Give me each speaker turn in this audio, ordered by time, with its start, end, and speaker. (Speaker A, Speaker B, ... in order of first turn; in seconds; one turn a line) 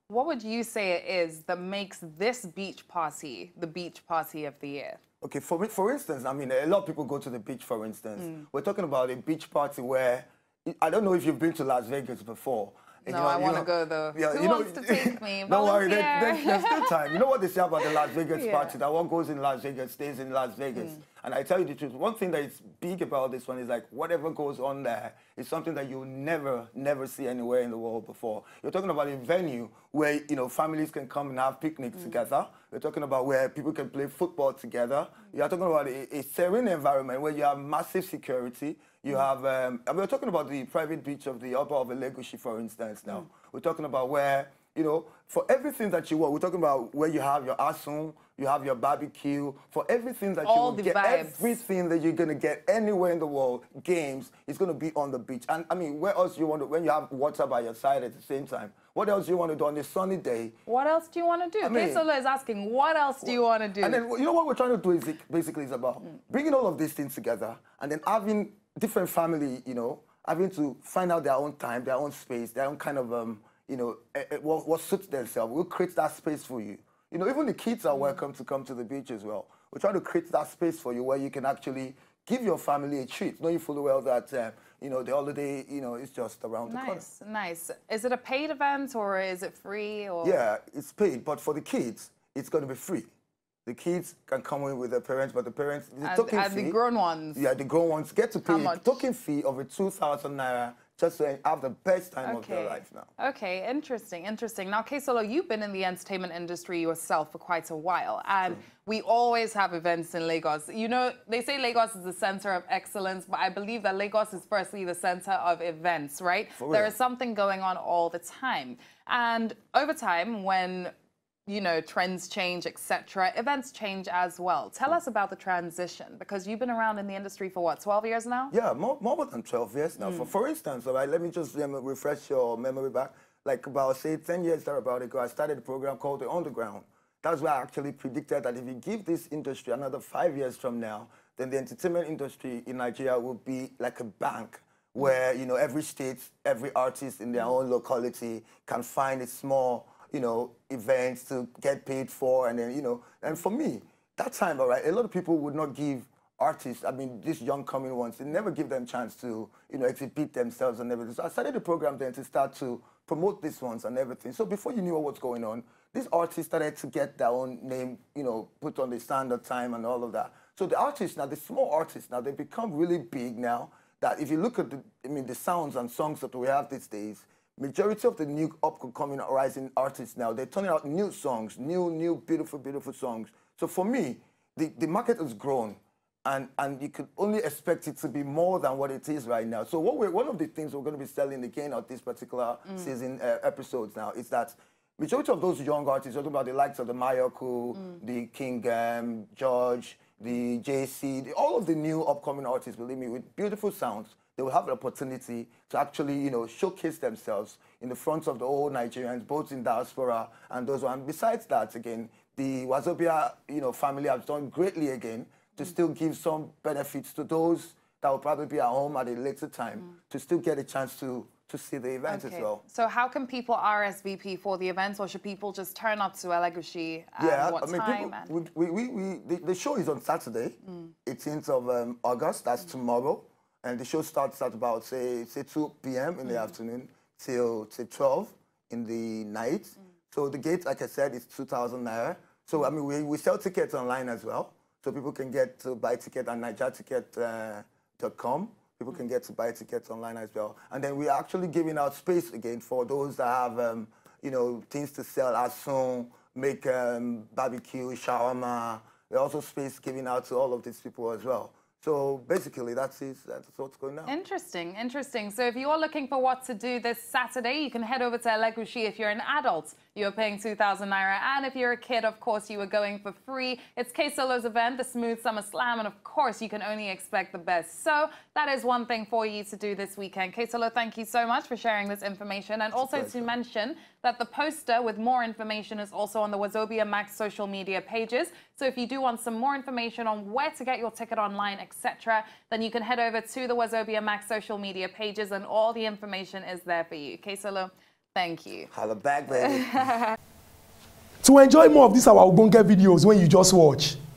Speaker A: 0.1-5.0
Speaker B: 5.2-60.5
Speaker A: 8.2-8.4
Speaker A: 13.0-17.1
Speaker A: 18.3-18.7
Speaker A: 50.4-51.5
Speaker A: 60.6-64.0
Speaker B: 61.6-62.0
Speaker B: 63.2-87.0
Speaker A: 86.7-90.4
Speaker B: 90.2-93.1
Speaker B: 93.7-96.8
Speaker A: 96.0-97.4
Speaker B: 97.3-103.1
Speaker A: 98.4-99.0
Speaker A: 102.2-120.9
Speaker B: 116.6-116.9
Speaker A: 121.5-128.5
Speaker B: 128.5-222.6
Speaker A: 130.0-130.3
Speaker A: 222.1-228.3
Speaker B: 227.2-264.1
Speaker A: 264.1-298.7
Speaker B: 282.7-283.3
Speaker B: 298.7-299.9
Speaker C: 301.2-304.0